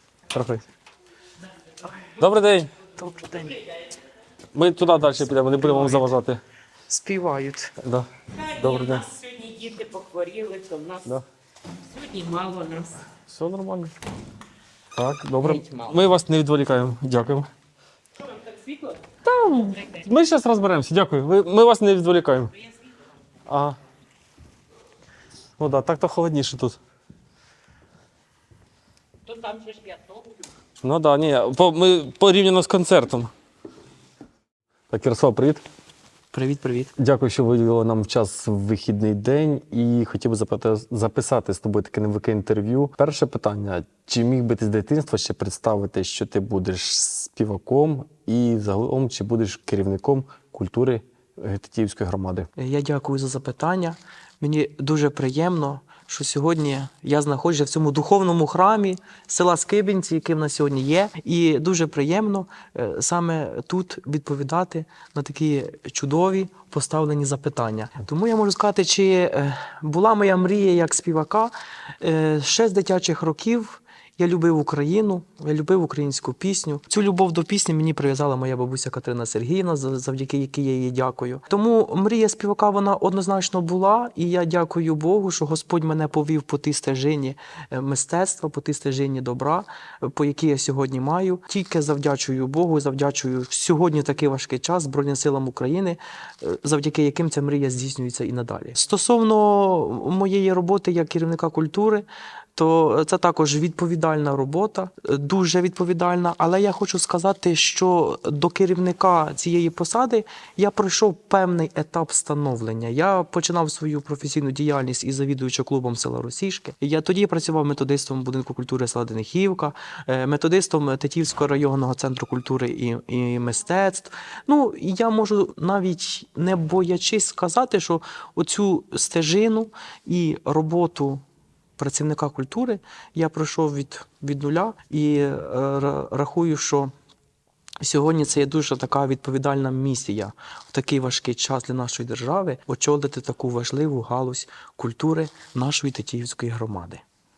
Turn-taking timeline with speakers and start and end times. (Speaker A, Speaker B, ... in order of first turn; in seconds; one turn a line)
Speaker A: 0.3-0.6
Speaker A: 2.2-2.7
Speaker B: 3.0-3.6
Speaker A: 4.5-6.4
Speaker B: 5.6-6.1
Speaker B: 6.9-7.7
Speaker A: 7.8-9.2
Speaker C: 9.2-11.0
Speaker C: 11.9-13.0
Speaker A: 13.3-13.9
Speaker A: 14.9-17.5
Speaker A: 19.2-22.5
Speaker A: 23.5-23.8
Speaker A: 25.6-26.8
Speaker C: 29.4-30.0
Speaker A: 30.8-33.3
Speaker A: 34.9-35.6
Speaker B: 36.3-36.9
Speaker A: 37.0-52.5
Speaker B: 52.6-131.2
Speaker B: 131.8-136.9
Speaker B: 137.8-147.0